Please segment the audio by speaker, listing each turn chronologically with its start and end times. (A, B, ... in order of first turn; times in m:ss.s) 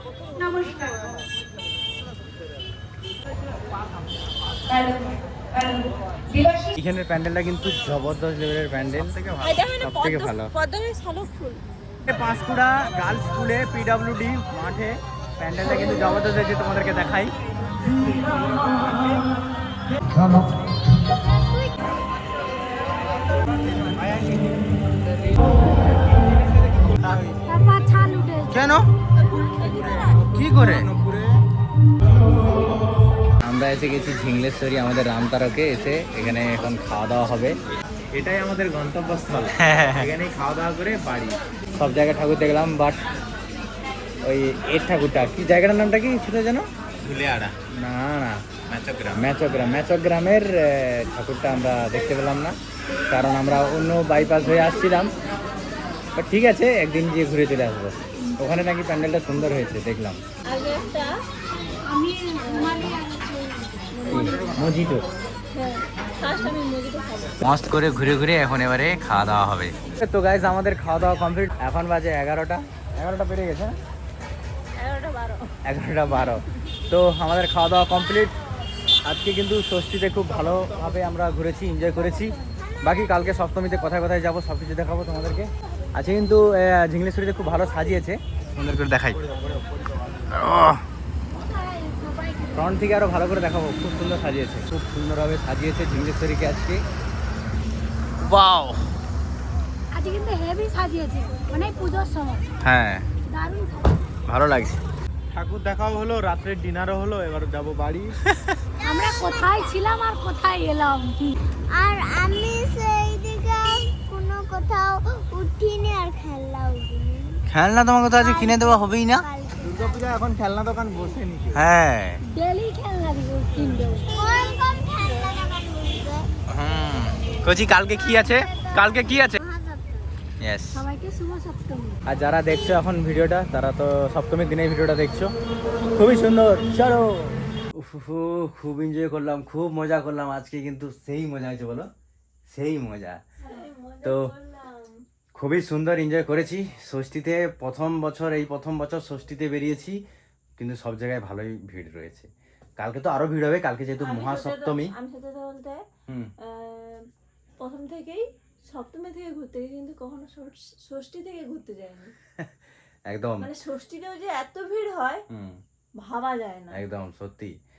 0:00.3-0:01.2 A
0:06.7-0:10.5 B
0:09.4-0:11.6 C
0:12.0-0:17.3 B
0:18.3-0:19.2 B
0:21.3-0:21.9 D
0:23.5-0:24.5 B
0:26.1-0:27.4 B
0:27.4-0:28.6 A
0:28.5-0:28.9 B
0:29.1-0:30.4 C
0:29.6-0:31.4 B
0:33.4-0:37.6 B
0:38.3-0:43.0 B
0:44.2-0:52.6 B
0:53.1-0:55.1 B
0:56.2-1:00.2 B
1:00.5-1:01.1 C
1:01.9-1:04.3 A
1:02.4-1:03.0 C
1:03.9-1:04.6 C
1:04.1-1:05.0 B
1:05.5-1:07.4 C
1:07.4-1:13.7 B
1:14.8-1:15.5 C
1:15.6-1:18.3 B
1:19.0-1:29.2 B
1:30.3-1:30.8 B
1:31.3-1:32.8 A
1:32.5-1:36.8 B
1:38.2-1:38.8 B
1:39.9-1:42.5 A
1:42.6-1:43.0 B
1:43.2-1:44.1 A
1:44.2-1:44.8 B
1:45.4-1:46.4 E
1:47.5-1:48.0 E
1:48.1-1:48.6 B
1:48.8-1:49.8 D
1:48.8-1:51.4 A
1:51.7-1:57.4 D
1:57.5-1:59.2 B
1:58.1-2:00.2 D
2:00.2-2:00.8 E
2:01.5-2:02.2 B
2:02.3-2:04.1 A
2:04.1-2:06.3 D
2:06.5-2:09.4 B
2:07.5-2:10.1 D
2:10.4-2:10.8 B
2:10.7-2:12.0 A
2:12.0-2:15.3 B
2:16.0-2:21.9 B
2:22.5-2:23.2 B
2:23.4-2:25.0 C
2:24.0-2:24.3 B
2:25.3-2:30.0 B
2:30.6-2:34.9 B
2:34.0-2:35.8 C
2:36.4-2:37.0 C
2:37.6-2:42.1 C
2:43.1-2:43.5 B
2:43.4-2:45.2 C
2:45.3-2:45.6 B
2:46.0-2:46.8 C
2:46.7-2:47.5 B